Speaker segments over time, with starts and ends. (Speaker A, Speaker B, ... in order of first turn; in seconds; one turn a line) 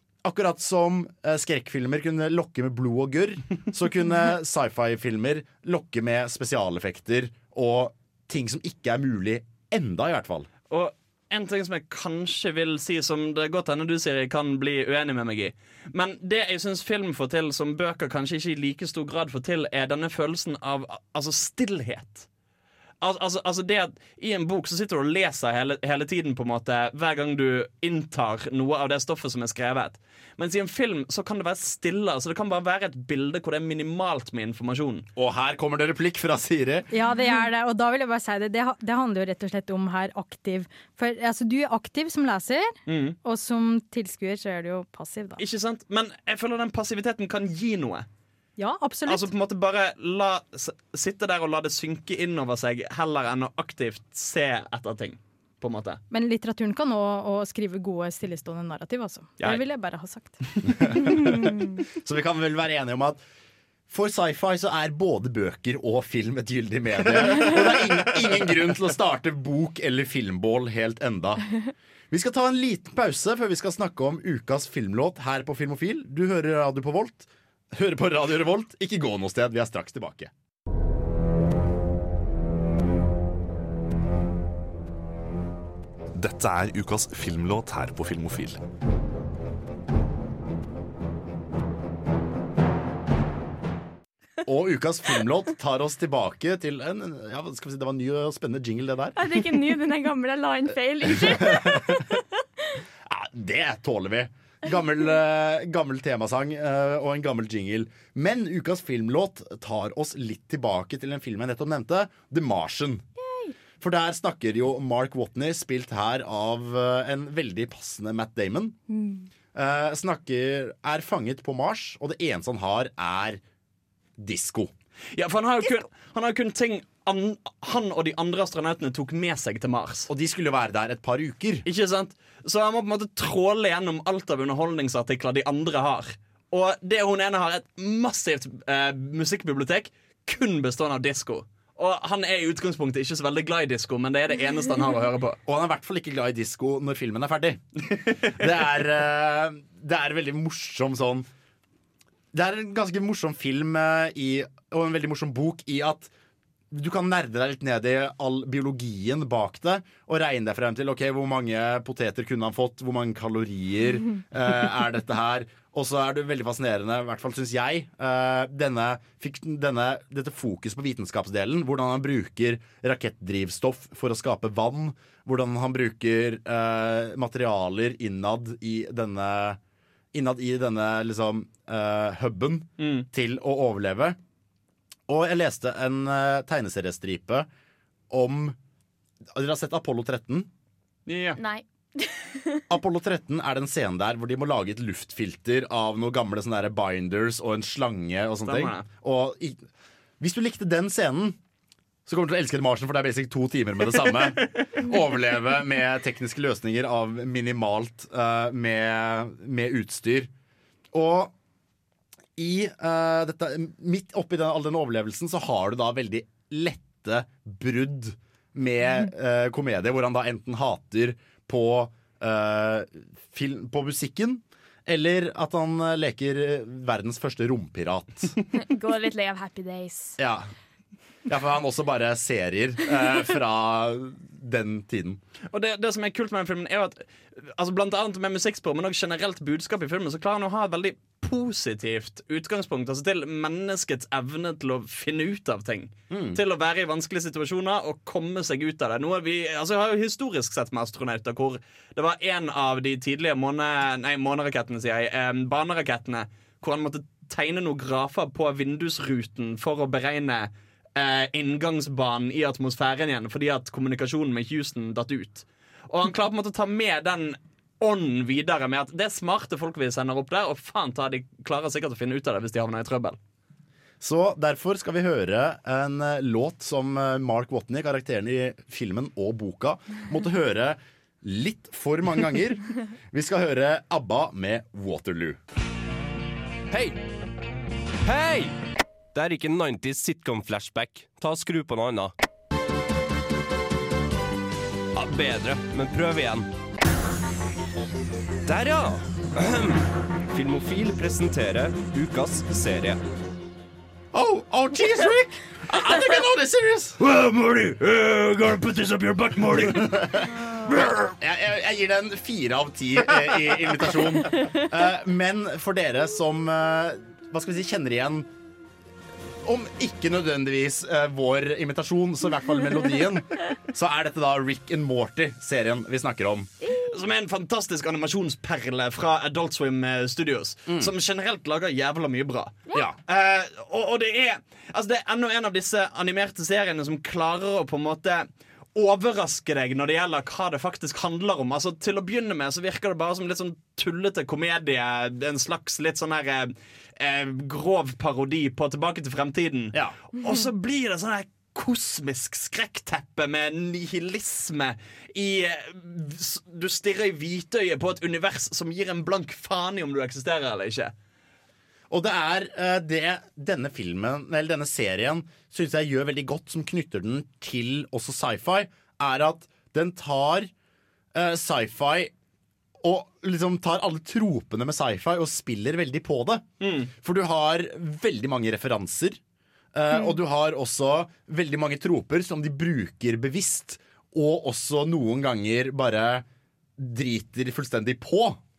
Speaker A: 0.2-10.5
Speaker B: 10.7-22.3
Speaker B: 23.0-35.0
Speaker A: 35.1-36.9
Speaker C: 36.9-45.4
Speaker B: 42.9-43.1
Speaker B: 45.4-48.1
Speaker C: 48.6-49.3
Speaker B: 49.1-56.0
Speaker C: 56.1-60.5
Speaker A: 61.0-63.2
Speaker A: 63.9-71.5
Speaker A: 72.1-80.3
Speaker D: 86.1-88.6
Speaker A: 94.4-99.2
Speaker E: 99.2-102.2
Speaker A: 101.2-101.9
Speaker A: 103.0-113.0
Speaker E: 113.2-113.5
Speaker A: 113.8-118.8
Speaker E: 118.9-119.3
Speaker A: 119.5-123.4
Speaker A: 124.2-124.7
Speaker B: 125.1-130.1
Speaker A: 130.1-131.6
Speaker B: 131.6-145.4
Speaker A: 145.4-151.3
Speaker A: 152.3-156.1
Speaker A: 156.7-179.6
Speaker A: 180.1-184.2
Speaker B: 182.8-183.1
Speaker A: 185.1-187.5
Speaker A: 188.1-188.6
Speaker A: 189.3-190.5
Speaker B: 191.1-191.4
Speaker E: 191.4-192.6
Speaker A: 192.7-199.6
Speaker B: 198.4-198.8
Speaker A: 200.2-201.4
Speaker A: 202.1-210.3
Speaker A: 210.9-211.3
Speaker A: 212.4-228.3
Speaker E: 228.5-230.2
Speaker A: 230.2-230.5
Speaker A: 231.3-235.2
Speaker B: 235.5-273.2
Speaker A: 246.1-246.4
Speaker A: 274.0-285.4
Speaker F: 286.7-287.0
Speaker F: 288.0-288.5
Speaker F: 289.1-292.1
Speaker F: 294.9-296.5
Speaker F: 298.4-303.0
Speaker A: 304.1-307.0
Speaker F: 307.0-309.9
Speaker A: 309.6-318.3
Speaker A: 319.4-326.5
Speaker B: 326.9-360.9
Speaker A: 330.7-330.9
Speaker A: 332.7-333.0
Speaker A: 361.9-370.5
Speaker A: 371.1-372.1
Speaker A: 372.8-376.4
Speaker B: 376.6-376.9
Speaker A: 377.0-379.2
Speaker A: 379.7-386.2
Speaker A: 386.8-388.4